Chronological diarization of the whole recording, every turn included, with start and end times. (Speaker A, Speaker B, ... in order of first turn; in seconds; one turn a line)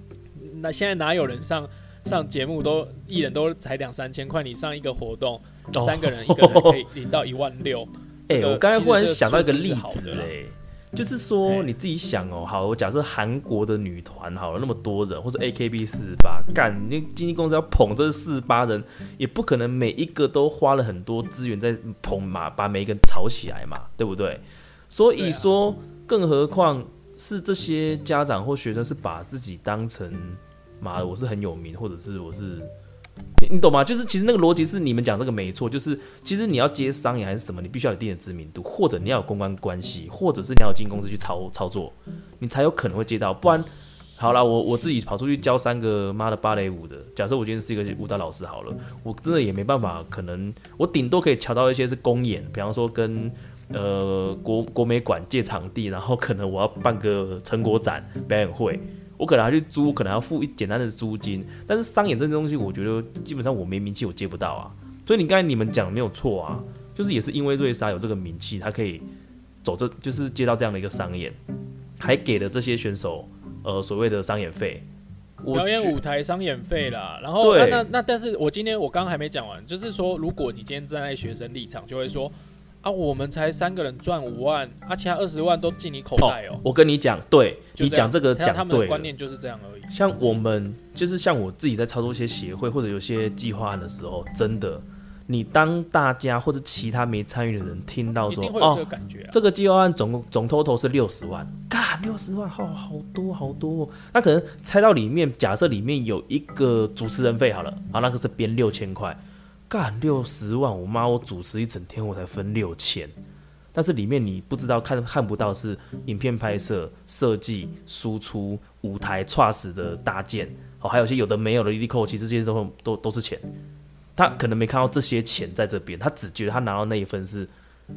Speaker A: 0.3-10.3
Speaker B: 5.7-6.8
Speaker B: 8.3-32.7
Speaker A: 25.1-25.5
Speaker B: 33.4-69.0
Speaker B: 69.6-71.4
Speaker B: 72.0-74.8
Speaker B: 75.4-75.9
Speaker A: 75.5-86.6
Speaker B: 77.4-77.8
Speaker B: 86.2-89.1
Speaker A: 87.7-89.9
Speaker B: 89.9-113.1
Speaker A: 98.3-99.4
Speaker B: 113.7-123.5
Speaker B: 124.2-127.5